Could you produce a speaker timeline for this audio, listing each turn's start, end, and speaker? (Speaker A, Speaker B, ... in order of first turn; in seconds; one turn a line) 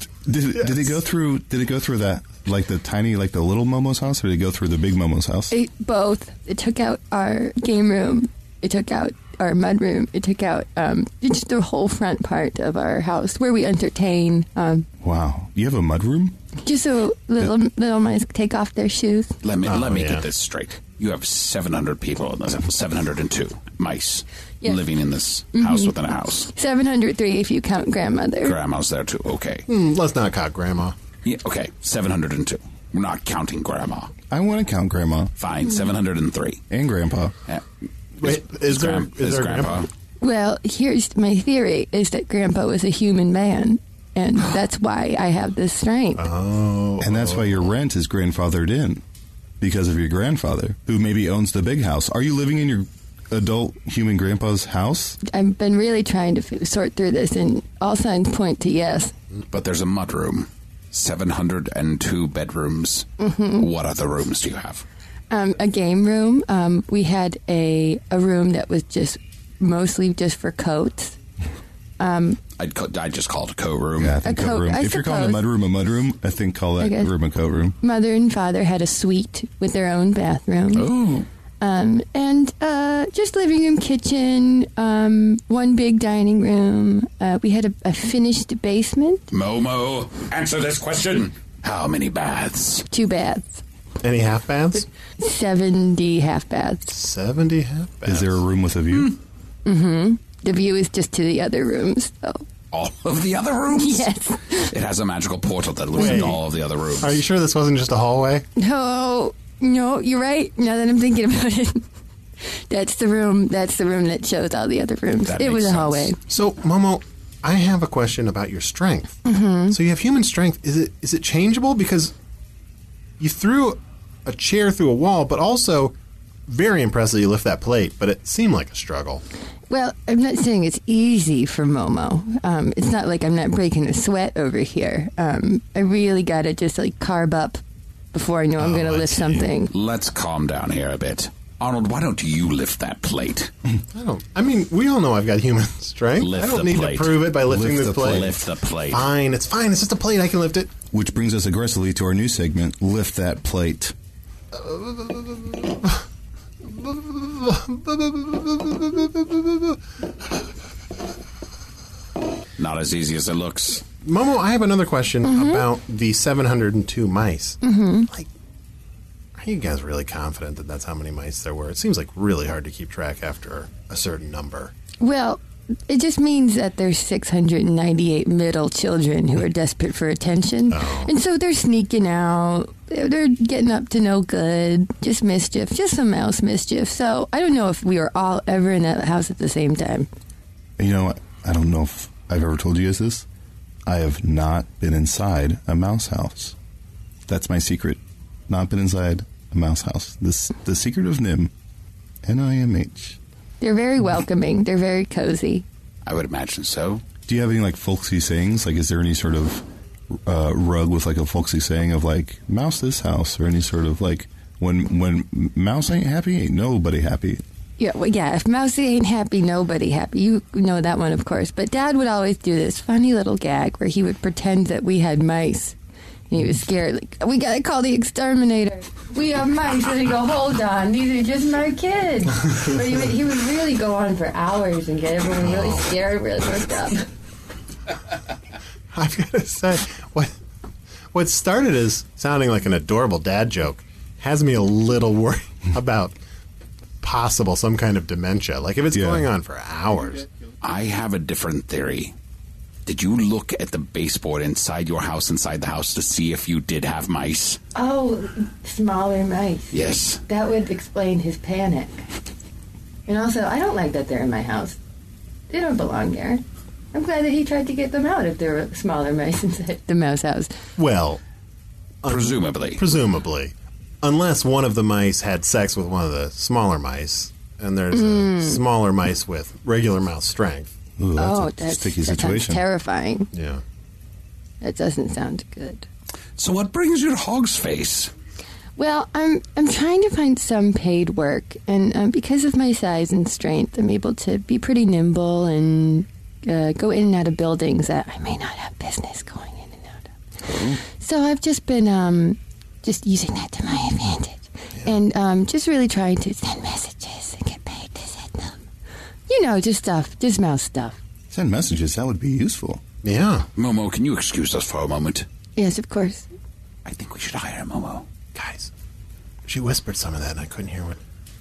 Speaker A: 0.2-5.5
Speaker B: 0.6-0.9
Speaker C: 5.5-14.9
Speaker A: 15.0-16.4
Speaker C: 16.6-19.4
Speaker D: 19.4-26.5
Speaker B: 19.6-20.2
Speaker C: 25.5-25.9
Speaker C: 26.5-28.6
Speaker D: 28.4-29.7
Speaker B: 29.7-30.9
Speaker D: 31.2-34.1
Speaker A: 34.3-35.3
Speaker D: 35.4-36.6
Speaker A: 36.7-37.3
Speaker B: 38.2-39.9
Speaker D: 38.2-39.9
Speaker C: 40.2-46.2
Speaker B: 46.1-47.7
Speaker A: 47.0-49.0
Speaker A: 49.6-55.2
Speaker C: 55.2-59.1
Speaker D: 59.5-64.8
Speaker C: 63.2-63.7
Speaker C: 65.3-71.2
Speaker C: 72.0-72.4
Speaker D: 72.6-74.2
Speaker A: 74.0-77.8
Speaker C: 74.2-75.4
Speaker C: 76.8-77.1
Speaker C: 77.8-80.9
Speaker D: 80.7-81.3
Speaker C: 81.6-89.3
Speaker D: 89.3-92.8
Speaker C: 92.9-93.6
Speaker B: 94.0-94.9
Speaker C: 95.2-96.9
Speaker B: 96.9-98.4
Speaker A: 98.0-99.1
Speaker C: 99.6-102.4
Speaker D: 102.7-107.2
Speaker C: 103.7-104.7
Speaker B: 105.9-106.4
Speaker C: 106.0-106.2
Speaker B: 107.0-108.5
Speaker C: 108.6-111.8
Speaker C: 112.7-116.2
Speaker D: 115.2-116.1
Speaker B: 116.3-122.1
Speaker C: 119.2-119.8
Speaker B: 123.2-125.9
Speaker B: 126.5-129.2
Speaker C: 129.7-137.6
Speaker C: 138.1-139.7
Speaker B: 138.6-139.5
Speaker D: 139.7-143.5
Speaker B: 143.9-148.4
Speaker D: 146.2-147.3
Speaker A: 147.5-148.4
Speaker D: 148.0-149.1
Speaker B: 148.9-150.7
Speaker A: 150.9-153.9
Speaker B: 154.5-156.0
Speaker B: 156.7-159.8
Speaker D: 162.6-163.8
Speaker B: 164.0-168.3
Speaker C: 165.2-165.6
Speaker C: 167.6-168.1
Speaker B: 169.4-174.7
Speaker C: 175.0-190.1
Speaker B: 180.7-181.1
Speaker A: 190.8-193.2
Speaker A: 193.9-196.6
Speaker A: 197.3-201.5
Speaker A: 202.2-203.2
Speaker C: 203.6-205.6
Speaker D: 206.1-207.0
Speaker A: 207.3-217.4
Speaker C: 217.8-225.8
Speaker C: 226.3-237.1
Speaker B: 235.4-235.9
Speaker B: 238.9-240.3
Speaker B: 241.1-246.1
Speaker B: 247.0-250.3
Speaker A: 248.9-249.3
Speaker D: 250.6-252.1
Speaker D: 252.9-257.6
Speaker C: 257.7-262.0
Speaker D: 259.7-260.2
Speaker C: 263.1-264.8
Speaker C: 265.5-266.4
Speaker C: 266.9-270.5
Speaker B: 270.8-271.2
Speaker B: 272.0-280.7
Speaker D: 272.1-272.8
Speaker C: 277.9-278.6
Speaker A: 281.0-282.6
Speaker C: 281.2-283.3
Speaker B: 283.3-283.6
Speaker C: 284.6-285.9
Speaker D: 286.4-288.1
Speaker C: 288.8-300.1
Speaker D: 300.4-300.8
Speaker C: 301.0-308.6
Speaker C: 309.3-311.0
Speaker A: 311.3-312.8
Speaker B: 313.0-313.4
Speaker D: 313.6-315.2
Speaker C: 315.6-316.3
Speaker D: 316.9-318.1
Speaker B: 318.3-318.7
Speaker B: 319.4-321.0